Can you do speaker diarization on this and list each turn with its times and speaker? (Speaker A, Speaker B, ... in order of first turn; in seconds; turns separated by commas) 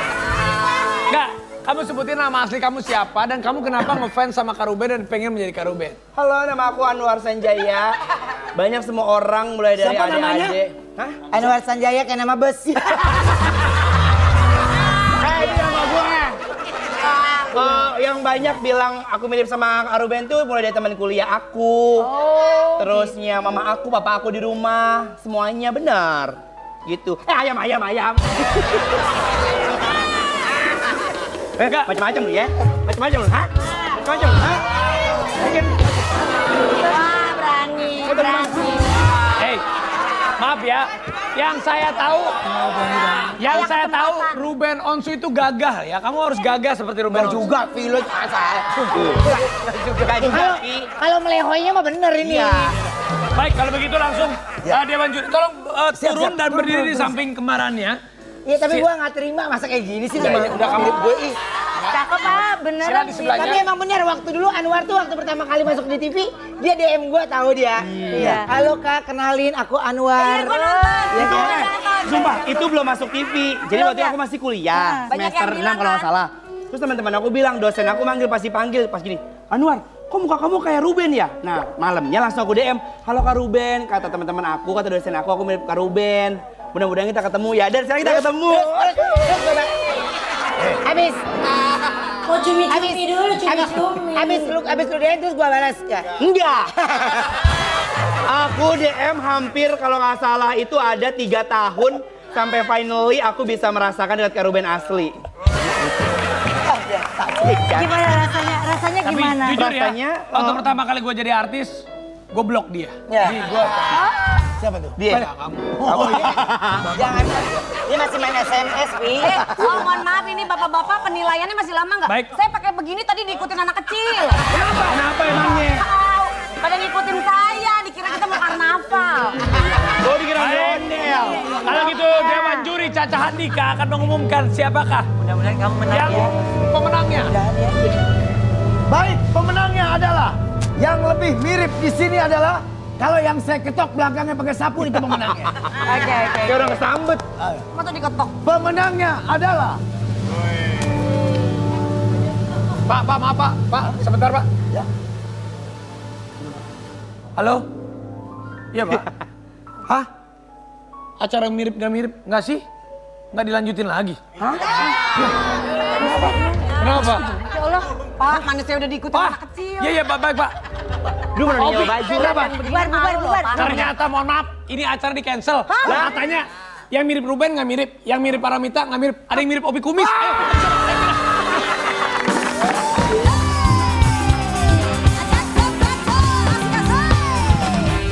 Speaker A: 1.1-6.0, Speaker B: 6.2-7.9, Speaker B: 8.6-11.3, Speaker C: 9.8-10.6, Speaker D: 11.3-13.2, Speaker B: 15.2-16.4, Speaker B: 17.1-22.1, Speaker B: 22.8-26.3, Speaker B: 26.9-28.9, Speaker B: 31.6-34.6, Speaker A: 31.6-31.9, Speaker B: 35.2-35.9, Speaker E: 36.8-38.8, Speaker B: 38.0-38.7, Speaker A: 39.4-39.6, Speaker A: 40.4-42.5, Speaker C: 42.6-43.3, Speaker A: 43.4-47.5, Speaker E: 43.4-44.4, Speaker C: 47.1-49.1, Speaker B: 49.0-49.2, Speaker D: 49.2-49.5, Speaker A: 49.6-50.3, Speaker B: 50.0-50.9, Speaker D: 50.2-52.7, Speaker B: 52.2-52.7, Speaker A: 53.4-58.0, Speaker C: 55.9-57.2, Speaker D: 58.4-61.3, Speaker A: 60.1-61.9, Speaker F: 61.9-63.5, Speaker A: 62.8-63.6, Speaker D: 63.3-71.5, Speaker B: 67.8-68.3, Speaker F: 68.1-68.5, Speaker E: 70.1-72.6, Speaker B: 71.3-88.8, Speaker E: 73.7-74.1, Speaker F: 74.7-75.0, Speaker E: 75.1-76.1, Speaker D: 88.0-89.7, Speaker D: 90.8-91.2, Speaker F: 92.2-94.5, Speaker D: 92.7-96.2, Speaker B: 96.2-96.7, Speaker D: 96.8-97.2, Speaker B: 98.3-105.2, Speaker B: 107.1-108.2, Speaker F: 107.8-109.6, Speaker A: 109.0-114.0, Speaker B: 109.4-110.6, Speaker D: 113.1-113.4, Speaker C: 114.6-115.0, Speaker B: 115.0-117.0, Speaker A: 115.1-115.8, Speaker D: 116.0-119.9, Speaker E: 119.2-124.5, Speaker A: 122.1-122.3, Speaker A: 124.5-125.8, Speaker E: 125.2-129.5, Speaker B: 130.0-131.5, Speaker A: 130.3-135.1, Speaker E: 131.6-132.7, Speaker D: 135.3-136.3, Speaker A: 135.9-137.3, Speaker D: 137.3-137.8, Speaker C: 138.9-145.6, Speaker E: 145.8-146.8, Speaker B: 146.4-147.2, Speaker C: 147.4-147.6, Speaker E: 147.7-148.3, Speaker C: 148.4-149.8, Speaker A: 152.8-154.5, Speaker A: 157.4-157.7, Speaker A: 158.7-159.1, Speaker A: 161.2-162.6, Speaker A: 163.3-164.2, Speaker A: 166.3-167.3, Speaker E: 167.3-169.9, Speaker A: 169.1-170.5, Speaker B: 171.3-172.6, Speaker A: 171.5-172.3, Speaker E: 172.0-173.9, Speaker F: 172.6-173.8, Speaker A: 173.5-181.1, Speaker E: 175.7-176.0, Speaker B: 175.8-176.1, Speaker E: 185.1-187.7